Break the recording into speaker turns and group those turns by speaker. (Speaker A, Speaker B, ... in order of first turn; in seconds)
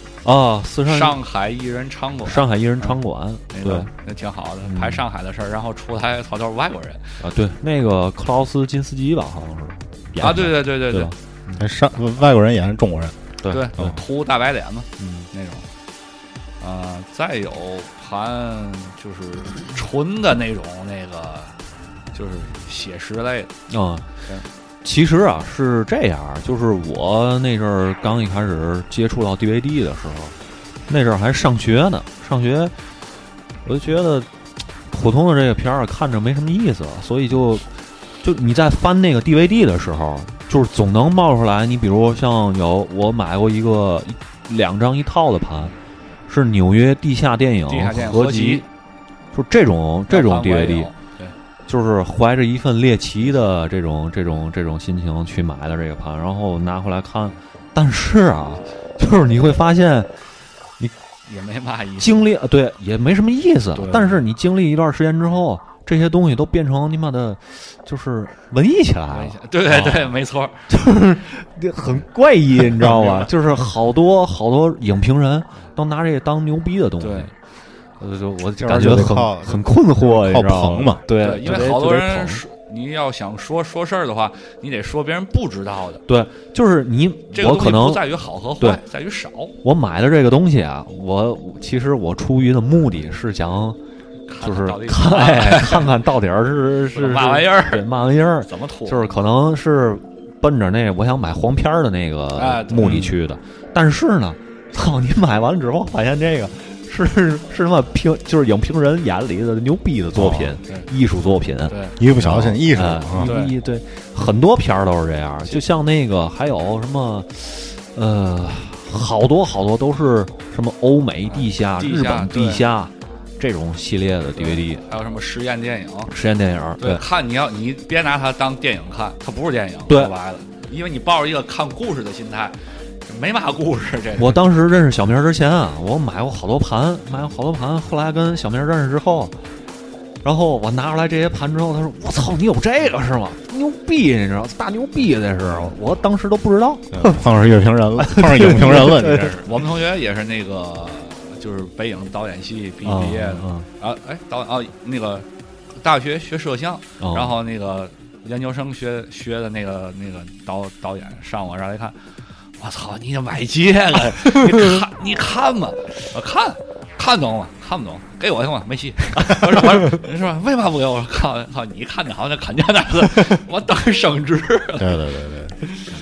Speaker A: 0.2-1.2, 2.2-3.9, 4.7-5.0, 7.2-11.2, 13.4-13.9, 15.0-15.3, 23.7-24.1, 24.8-30.3, 30.9-32.7, 33.6-34.3, 34.9-37.7, 38.2-45.7, 46.3-48.7, 49.3-50.9, 51.7-60.1, 62.0-70.1, 70.7-77.3, 78.0-82.4, 86.1-88.1, 89.6-93.8, 94.4-124.8, 126.1-127.0, 134.2-139.3, 140.2-147.2, 148.0-149.6, 152.8-153.7, 157.0-157.3
Speaker B: 0.9-3.0, 3.5-7.0, 10.2-11.1, 13.5-15.7, 16.6-21.6, 22.1-23.5, 47.7-48.6, 50.1-51.3, 61.3-62.2, 63.8-64.2, 69.1-70.5, 77.0-77.3, 81.2-86.0, 87.3-89.5, 94.3-95.9, 96.9-97.8, 98.5-99.1, 102.3-103.1, 111.7-112.0, 113.2-113.5, 121.3-122.6, 124.3-126.1, 126.8-134.4, 149.4-155.2, 155.8-161.9, 162.6-174.9
Speaker C: 11.5-13.2, 72.7-73.3, 78.6-81.0, 110.1-110.6, 112.0-113.3, 146.9-149.4, 174.8-175.6